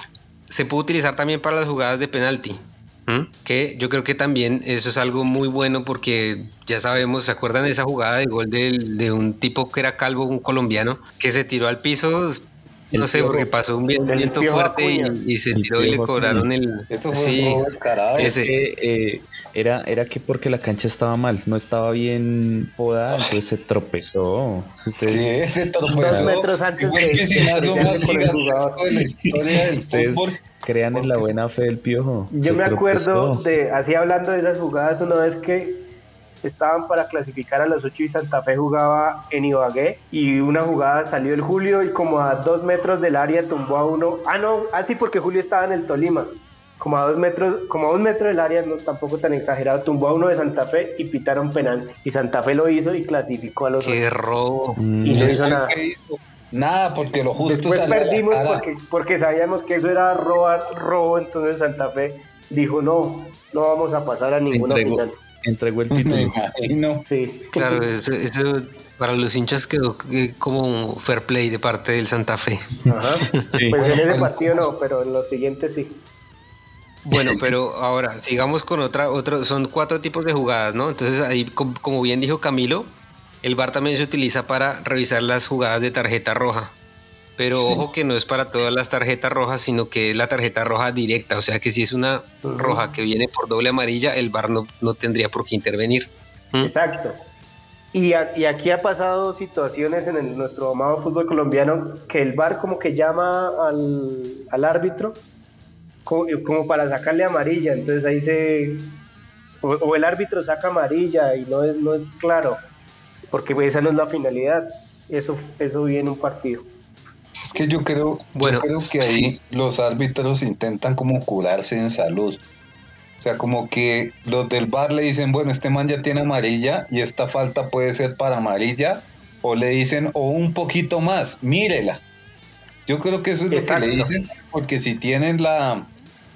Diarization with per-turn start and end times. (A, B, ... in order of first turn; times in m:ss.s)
0:00.5-0:17.6 A
0:13.1-0:13.5 B
0:14.1-0:15.2 B
0:15.5-0:16.5 C
0:16.9-0:18.3 D
0:18.2-0:18.5 A
0:18.2-0:25.3 C
0:23.1-0:23.4 D
0:25.1-0:30.4 D
0:26.0-0:28.8 B
0:29.9-0:33.5 C
0:30.9-0:31.4 D
0:32.3-0:35.8 B
0:36.4-0:54.0 B
0:53.8-0:54.8 A
0:54.8-0:55.4 C
0:55.0-0:55.8 B
0:55.1-0:58.6 D
0:57.4-1:05.1 B
1:04.5-1:06.4 C
1:05.9-1:07.1 D
1:07.1-1:07.9 B
1:07.5-1:12.7 A
1:12.9-1:16.0 B
1:13.7-1:14.7 D
1:17.1-1:26.7 A
1:27.4-1:36.7 A
1:27.5-1:27.9 D
1:32.4-1:32.9 B
1:36.6-1:37.2 B
1:37.9-1:45.2 B
1:46.1-1:49.0 B
1:49.6-1:52.6 B
1:53.3-1:56.7 B
1:57.4-2:02.4 D
1:58.4-1:59.3 A
2:03.2-2:12.0 D
2:12.9-2:15.9 D
2:13.5-2:14.1 B